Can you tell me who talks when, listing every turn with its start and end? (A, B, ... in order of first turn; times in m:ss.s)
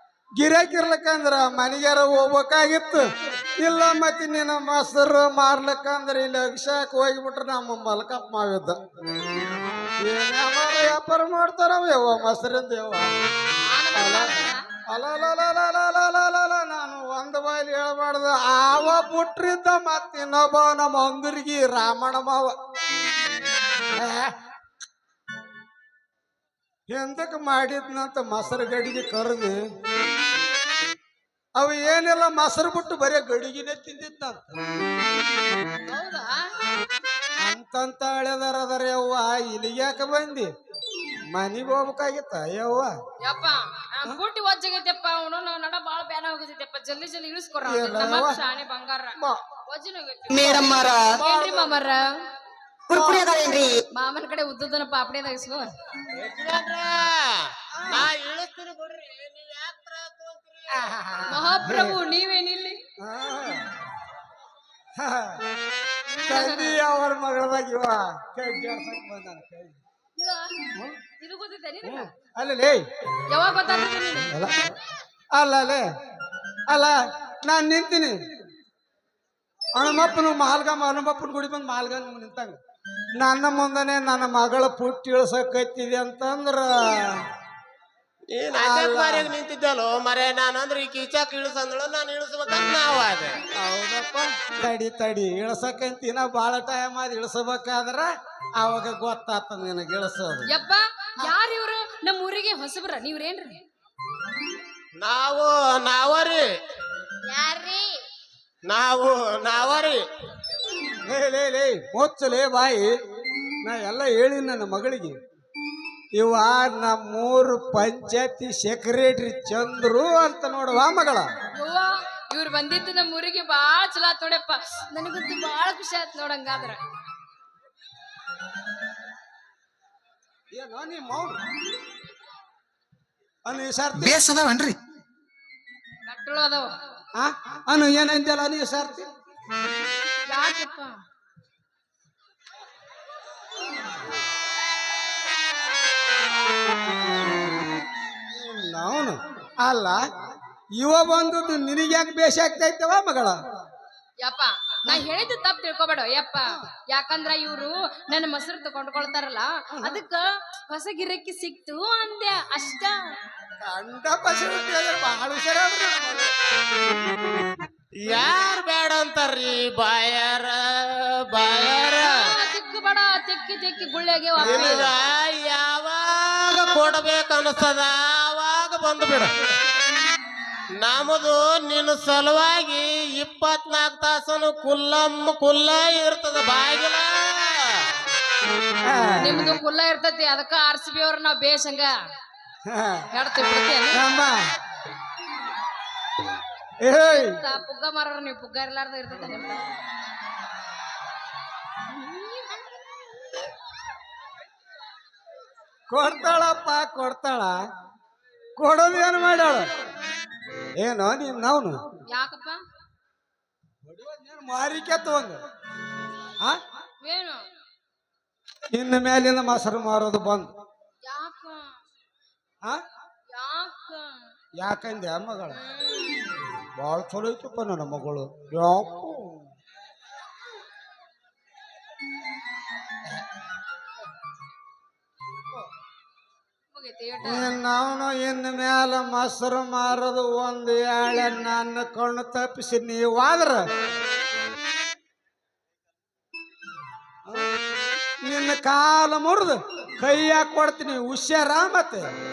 0:00.4-0:03.0 A
0:03.6-0:08.8 A
0:10.0-0:13.1 A
0:13.7-0:14.6 B
0:14.0-0:14.3 A
0:14.9-0:22.5 A
0:24.0-0:24.3 A
0:26.9-0:29.6 A
0:31.6-0:34.6 A
0:35.9-0:36.5 B
0:37.4-0:40.5 A
0:41.3-0:42.9 A
0:43.2-0:52.0 B
0:47.6-0:48.4 A
0:50.3-0:51.2 C
0:51.2-0:51.8 A
0:52.9-0:53.8 C
0:52.9-0:53.4 A
0:53.9-0:55.7 B
0:56.1-1:01.3 D
0:57.8-0:58.1 A
1:01.3-1:02.8 B
1:01.6-1:02.0 A
1:03.0-1:03.6 A
1:05.0-1:05.4 A
1:06.3-1:09.8 A
1:06.3-1:06.8 B
1:10.2-1:10.7 B
1:11.2-1:12.1 B
1:11.8-1:12.8 A
1:13.3-1:14.3 B
1:14.3-1:14.7 A
1:15.3-1:15.8 A
1:16.7-1:18.2 A
1:19.8-1:22.6 A
1:23.2-1:27.2 A
1:28.3-1:33.4 D
1:28.5-1:29.3 A
1:33.6-1:40.5 A
1:40.5-1:43.6 B
1:45.0-1:46.4 D
1:47.3-1:48.0 B
1:48.7-1:50.0 D
1:51.1-1:52.9 A
1:53.6-1:55.2 A
1:56.2-2:01.3 A
2:01.6-2:06.8 B
2:10.5-2:11.4 A
2:13.4-2:14.3 A
2:14.0-2:14.8 C
2:16.1-2:16.7 B
2:17.2-2:19.1 A
2:20.3-2:21.0 B
2:28.3-2:30.0 A
2:30.8-2:33.4 A
2:34.2-2:43.0 B
2:43.6-2:46.3 A
2:48.0-2:52.2 D
2:52.0-2:54.9 B
2:54.4-2:54.9 A
2:54.4-2:59.4 D
3:00.8-3:07.9 D
3:08.8-3:09.6 A
3:09.2-3:11.9 B
3:12.7-3:13.0 A
3:13.1-3:14.0 B
3:13.9-3:14.4 A
3:16.8-3:17.4 A
3:17.0-3:19.7 B
3:25.9-3:27.6 A
3:28.6-3:29.7 A
3:30.8-3:31.8 A
3:32.1-3:32.6 B
3:33.9-3:35.4 A
3:37.0-3:37.4 B
3:38.7-3:40.5 A
3:41.0-3:41.7 B
3:43.3-3:44.3 B
3:44.6-3:45.6 A
3:45.5-3:46.4 B
3:46.8-3:49.4 A
3:56.7-3:57.5 B
3:57.2-4:03.6 A
4:08.2-4:12.1 A